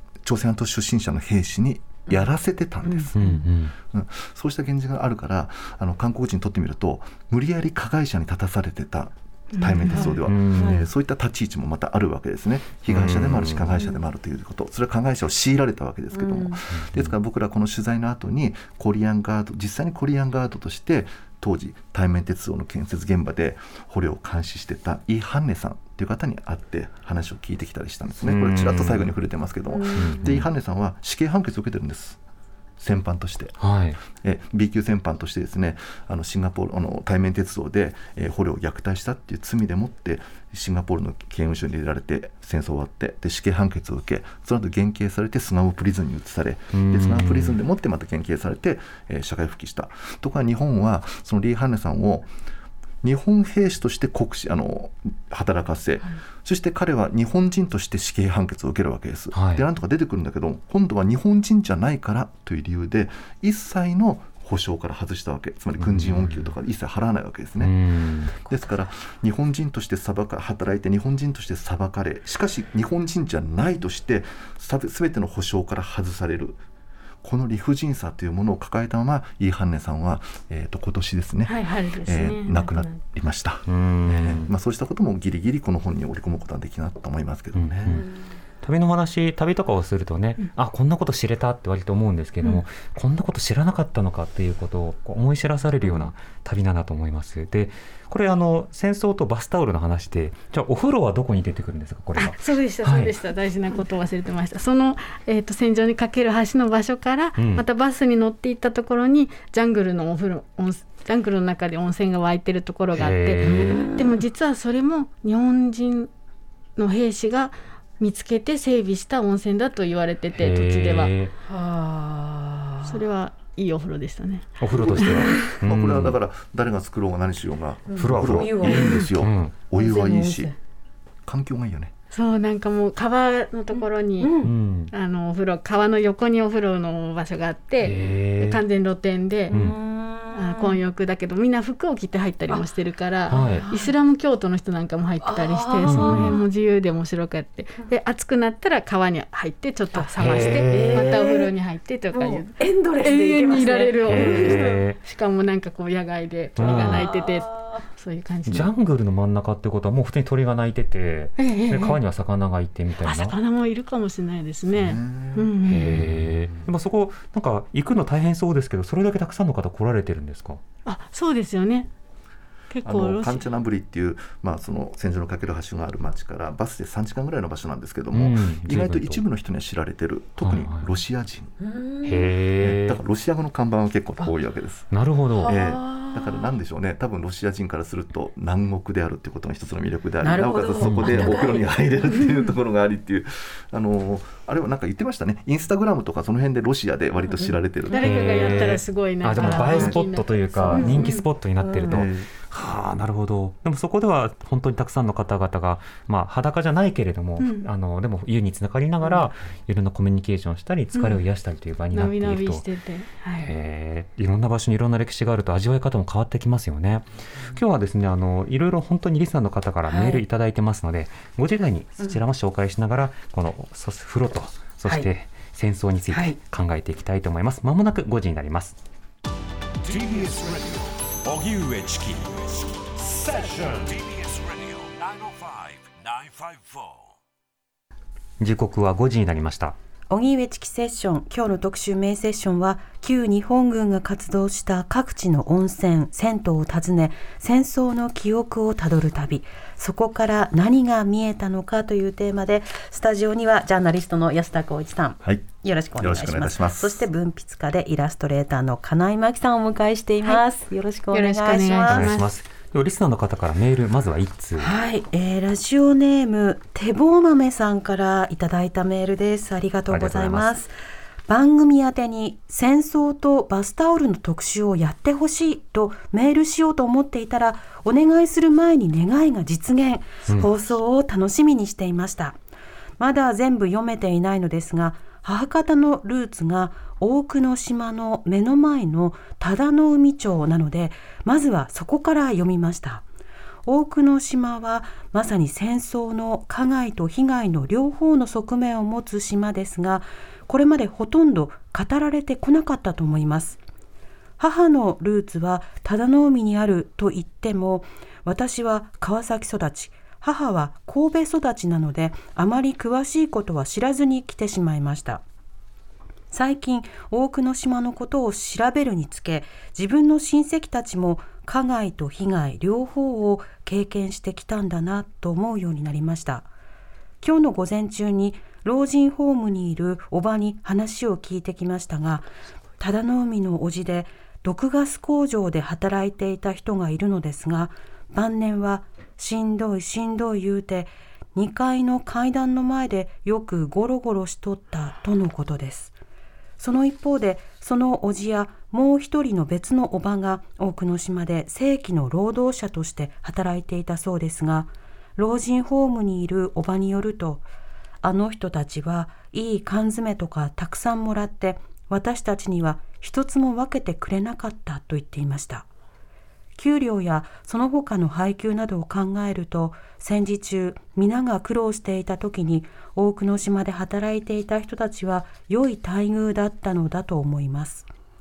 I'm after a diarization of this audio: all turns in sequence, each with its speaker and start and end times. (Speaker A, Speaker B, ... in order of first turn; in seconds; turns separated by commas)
Speaker A: 0.2-3.2, Speaker B: 2.8-3.5, Speaker C: 3.2-3.7, Speaker A: 3.9-32.2, Speaker D: 9.6-10.1, Speaker B: 9.9-10.9, Speaker C: 10.2-10.8, Speaker C: 12.9-13.7, Speaker B: 16.1-16.6, Speaker C: 16.7-17.2, Speaker C: 28.2-29.1, Speaker B: 29.7-30.3, Speaker C: 30.0-30.5, Speaker A: 32.8-52.3, Speaker C: 33.6-34.0, Speaker C: 46.7-47.6, Speaker A: 53.0-67.7, Speaker C: 59.3-59.6, Speaker C: 65.8-66.5, Speaker C: 67.6-68.5, Speaker A: 68.4-76.6, Speaker A: 77.2-88.0, Speaker D: 81.5-83.0, Speaker C: 83.7-84.5, Speaker C: 87.5-88.0, Speaker B: 87.8-88.3, Speaker C: 88.6-103.2, Speaker B: 95.8-96.1, Speaker D: 102.2-116.1, Speaker C: 107.4-107.7, Speaker C: 113.0-113.9, Speaker B: 113.4-114.2, Speaker D: 116.8-121.1, Speaker C: 120.3-121.3, Speaker B: 121.5-123.0, Speaker D: 122.8-125.5, Speaker C: 124.6-126.2, Speaker A: 124.7-130.5, Speaker B: 127.9-129.1, Speaker C: 128.0-129.6, Speaker B: 129.7-130.6, Speaker A: 131.3-131.9, Speaker D: 132.1-134.3, Speaker B: 133.7-134.5, Speaker C: 134.4-134.9, Speaker D: 134.9-139.5, Speaker C: 137.8-138.6, Speaker B: 139.5-140.8, Speaker C: 139.5-139.8, Speaker D: 140.3-158.7, Speaker B: 143.3-143.9, Speaker C: 143.3-143.7, Speaker B: 145.2-146.4, Speaker C: 145.9-146.4, Speaker B: 149.9-151.5, Speaker C: 150.2-151.2, Speaker B: 152.1-154.8, Speaker C: 154.1-155.0, Speaker C: 156.6-157.1, Speaker B: 156.6-157.9, Speaker C: 158.5-163.4, Speaker D: 161.4-162.0, Speaker D: 163.0-166.0, Speaker A: 164.7-166.3, Speaker C: 165.7-170.6, Speaker D: 170.9-171.9, Speaker D: 172.7-173.4, Speaker A: 172.8-181.6, Speaker C: 178.1-179.2, Speaker C: 180.4-180.9, Speaker B: 181.6-182.3, Speaker C: 182.1-183.0, Speaker A: 182.6-184.9, Speaker C: 184.9-185.6, Speaker B: 185.4-186.6, Speaker A: 185.4-198.5, Speaker B: 190.2-192.2, Speaker C: 190.8-191.4, Speaker B: 197.2-198.2, Speaker D: 197.9-201.2, Speaker C: 198.0-212.7, Speaker A: 199.4-200.0, Speaker B: 200.7-201.9, Speaker A: 201.8-202.3, Speaker D: 207.4-207.7, Speaker D: 210.9-211.2, Speaker D: 211.9-213.5, Speaker C: 213.4-228.8, Speaker B: 219.9-220.2, Speaker B: 226.1-226.4, Speaker E: 229.8-237.2, Speaker C: 238.4-239.8, Speaker B: 240.1-262.1, Speaker A: 255.2-257.0, Speaker D: 261.1-262.3, Speaker C: 261.9-264.7, Speaker B: 264.6-270.7, Speaker C: 269.9-270.5, Speaker B: 271.3-282.4, Speaker B: 283.0-293.0, Speaker B: 293.7-303.6, Speaker B: 304.4-315.2, Speaker B: 316.3-326.5, Speaker B: 327.2-345.9, Speaker B: 346.6-357.5, Speaker B: 358.0-365.7, Speaker B: 366.6-377.9